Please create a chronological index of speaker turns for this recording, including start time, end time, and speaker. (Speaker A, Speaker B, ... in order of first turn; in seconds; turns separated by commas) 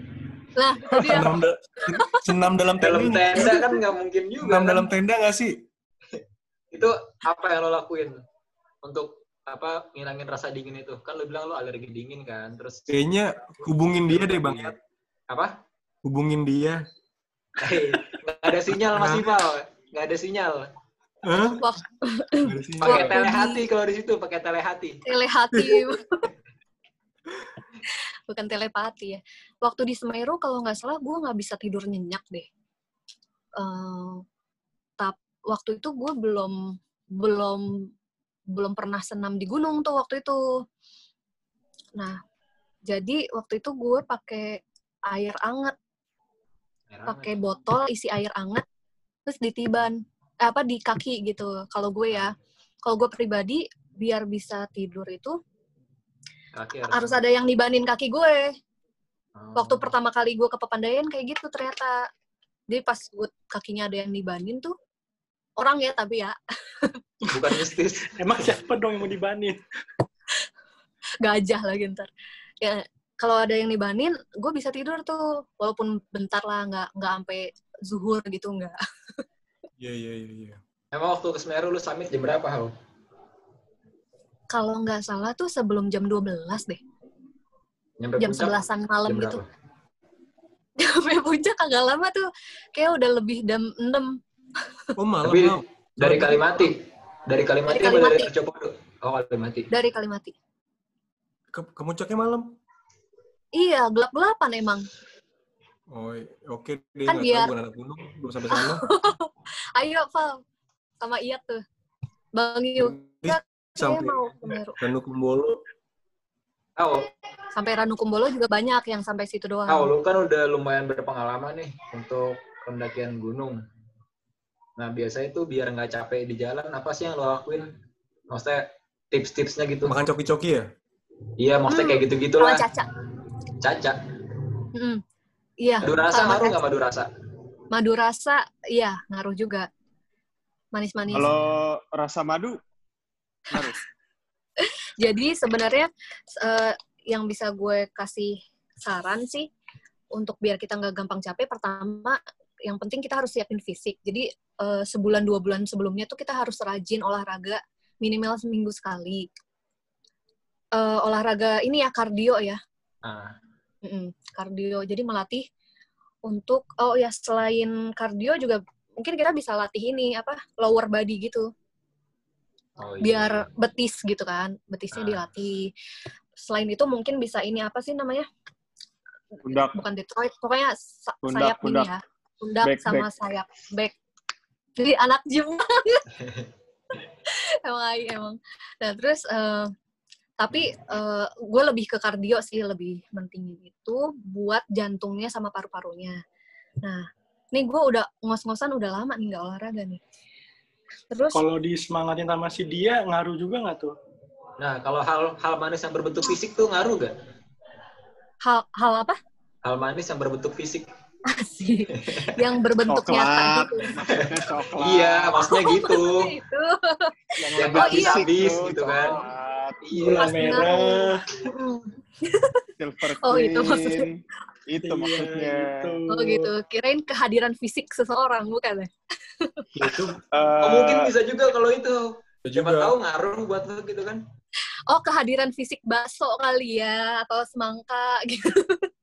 Speaker A: 0.5-1.3, Speaker B: 0.9-3.5, Speaker A: 1.8-2.2, Speaker C: 2.8-4.9, Speaker A: 3.4-3.8, Speaker B: 4.4-5.6, Speaker C: 6.7-8.2, Speaker C: 8.8-12.9, Speaker B: 12.9-14.7, Speaker C: 14.1-14.7, Speaker B: 16.0-16.8, Speaker C: 17.6-20.7, Speaker B: 18.9-19.3, Speaker B: 21.2-21.6, Speaker A: 21.6-23.6, Speaker B: 22.4-23.2, Speaker C: 22.8-25.0, Speaker A: 25.0-26.3, Speaker B: 25.5-25.8, Speaker A: 28.3-32.5, Speaker A: 33.6-34.2, Speaker A: 35.0-37.9, Speaker A: 38.5-40.4, Speaker A: 42.9-45.7, Speaker C: 46.9-47.3, Speaker A: 47.0-48.6, Speaker A: 49.2-52.3, Speaker A: 52.8-55.4, Speaker C: 56.5-57.2, Speaker A: 56.9-58.5, Speaker C: 59.4-59.9, Speaker A: 59.5-62.0, Speaker A: 62.7-64.7, Speaker A: 65.6-67.0, Speaker C: 67.3-68.5, Speaker D: 68.1-69.6, Speaker A: 71.2-72.1, Speaker A: 72.6-78.8, Speaker B: 79.8-80.6, Speaker C: 80.9-82.7, Speaker A: 84.5-86.8, Speaker C: 88.0-89.5, Speaker A: 88.2-89.4, Speaker A: 90.8-94.2, Speaker B: 95.0-96.4, Speaker C: 95.2-96.8, Speaker C: 97.3-99.7, Speaker A: 97.7-98.3, Speaker A: 99.7-100.3, Speaker B: 101.5-102.5, Speaker A: 103.6-104.9, Speaker B: 105.9-108.8, Speaker A: 107.1-107.5, Speaker A: 108.5-110.4, Speaker A: 111.0-111.6, Speaker A: 112.3-114.8, Speaker B: 112.8-115.6, Speaker C: 116.8-117.1, Speaker A: 117.5-119.9, Speaker C: 119.7-123.6, Speaker C: 124.8-127.7, Speaker C: 128.3-129.9, Speaker B: 129.8-130.7, Speaker C: 131.4-132.6, Speaker A: 131.7-132.9, Speaker C: 133.6-134.0, Speaker A: 134.7-135.0, Speaker A: 135.6-136.6, Speaker C: 135.8-137.1, Speaker A: 137.7-139.7, Speaker A: 140.7-141.3, Speaker E: 141.1-142.6, Speaker E: 143.5-143.8, Speaker A: 144.6-149.5, Speaker A: 150.1-159.3, Speaker A: 160.7-162.6, Speaker C: 163.0-163.3, Speaker A: 163.8-165.4, Speaker A: 166.2-171.5, Speaker C: 172.8-173.4, Speaker A: 173.0-175.7, Speaker C: 174.9-175.2, Speaker A: 176.4-178.2, Speaker E: 179.4-179.8, Speaker A: 179.5-183.9, Speaker E: 181.2-181.9, Speaker E: 182.6-183.1, Speaker A: 184.8-186.1, Speaker A: 187.2-189.7, Speaker A: 190.4-196.2, Speaker A: 196.8-200.0, Speaker A: 201.1-201.4, Speaker D: 201.3-203.9, Speaker C: 204.6-207.2, Speaker A: 208.4-209.2, Speaker C: 209.6-210.9, Speaker A: 211.3-213.9, Speaker E: 212.9-215.4, Speaker C: 214.1-216.3, Speaker A: 215.4-218.3, Speaker E: 217.4-220.2, Speaker C: 217.6-219.2, Speaker C: 219.8-220.6, Speaker D: 219.9-221.2, Speaker A: 220.2-222.7, Speaker E: 222.8-226.0, Speaker A: 223.2-224.0, Speaker D: 224.8-226.5, Speaker A: 226.1-229.7, Speaker B: 229.7-230.2, Speaker E: 230.3-231.1, Speaker C: 230.6-234.2, Speaker B: 232.4-232.9, Speaker A: 234.9-238.9